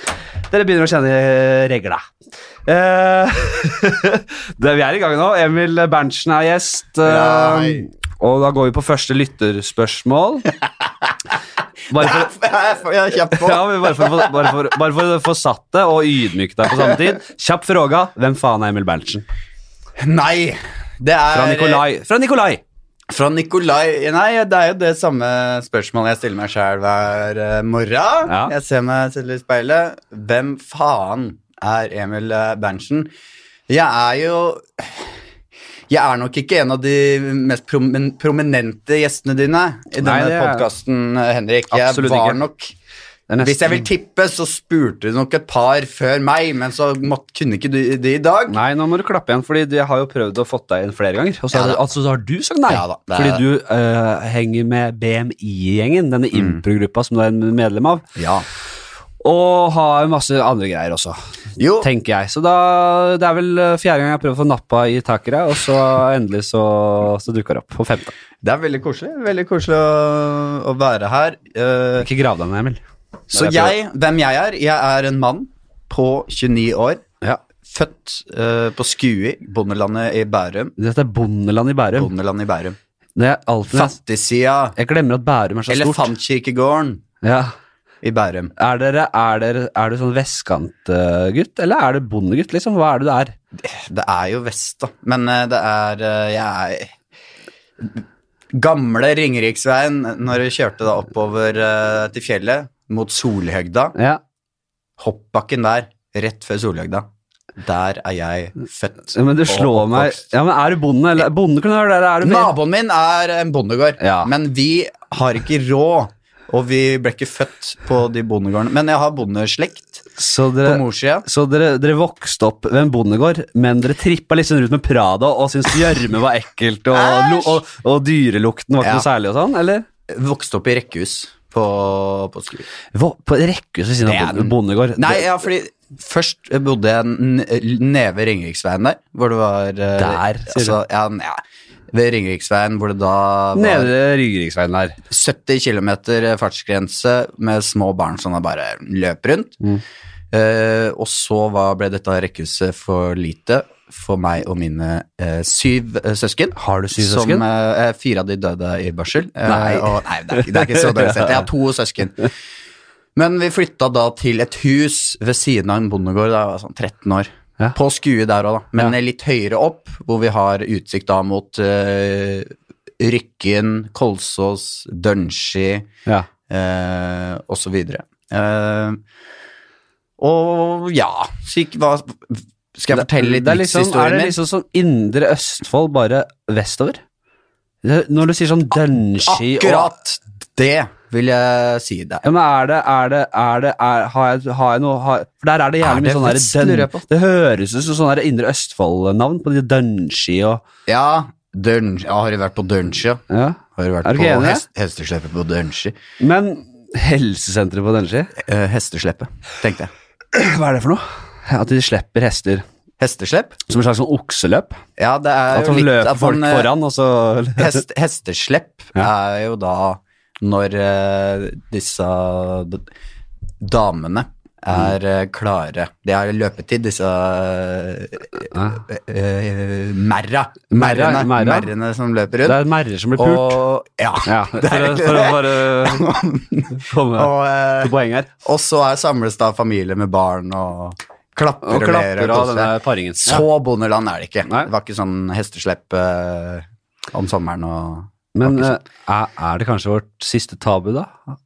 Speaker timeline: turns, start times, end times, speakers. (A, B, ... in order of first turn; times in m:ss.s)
0:00.5-0:02.1 A
0:02.7-0:10.5 A
0:07.0-0:07.9 B
0:11.9-0:12.3 A
0:11.9-0:14.5 B
0:13.3-0:19.2 A
0:20.0-0:21.8 B
0:21.3-0:22.6 A
0:23.1-0:33.1 B
0:28.2-0:28.5 A
0:33.7-0:35.2 B
0:35.9-0:42.7 B
0:40.0-0:40.7 A
0:41.7-0:42.4 A
0:43.3-0:43.9 A
0:43.4-0:48.6 B
0:48.5-0:58.1 A
0:51.5-0:51.8 B
0:52.7-0:53.4 B
0:56.3-0:56.6 B
0:58.2-0:58.5 B
0:59.2-1:01.2 A
1:01.6-1:01.9 B
1:01.8-1:08.1 A
1:08.4-1:12.1 B
1:12.0-1:12.8 A
1:13.3-1:13.8 A
1:13.3-1:17.0 B
1:17.7-1:20.8 B
1:20.8-1:22.1 A
1:22.0-1:22.8 B
1:23.2-1:23.9 A
1:23.7-1:24.8 B
1:24.8-1:26.1 A
1:25.7-1:27.0 B
1:27.2-1:27.5 A
1:28.0-1:28.5 B
1:28.6-1:33.4 A
1:33.6-1:36.9 B
1:38.5-1:44.0 B
1:45.0-1:50.2 B
1:49.1-1:52.5 A
1:52.2-2:00.0 B
1:54.0-1:54.3 A
2:00.2-2:09.8 A
2:00.6-2:01.3 B
2:06.9-2:07.6 B
2:08.8-2:09.1 B
2:10.1-2:12.7 B
2:12.9-2:15.3 A
2:14.1-2:23.9 B
2:20.0-2:20.8 A
2:23.6-2:25.0 A
2:25.1-2:29.6 B
2:30.3-2:42.3 B
2:36.6-2:37.4 A
2:39.5-2:41.3 A
2:43.2-2:55.9 B
2:56.5-2:59.0 B
3:00.2-3:04.4 B
3:02.9-3:07.0 A
3:07.8-3:09.9 A
3:09.2-3:12.2 B
3:12.2-3:20.6 A
3:15.8-3:17.0 B
3:20.9-3:23.2 B
3:23.3-3:24.6 A
3:23.7-3:26.0 B
3:26.2-3:28.3 A
3:28.4-3:29.9 B
3:30.3-3:32.6 A
3:33.0-3:33.6 B
3:33.7-3:34.8 A
3:35.0-3:36.7 B
3:35.5-3:37.8 A
3:37.6-3:42.8 B
3:43.6-3:52.6 B
3:48.5-3:48.8 A
3:50.7-3:51.7 A
3:52.5-3:53.6 A
3:53.2-4:08.7 B
3:54.2-3:56.1 A
3:56.8-3:58.3 A
4:01.6-4:03.5 A
4:08.4-4:11.2 A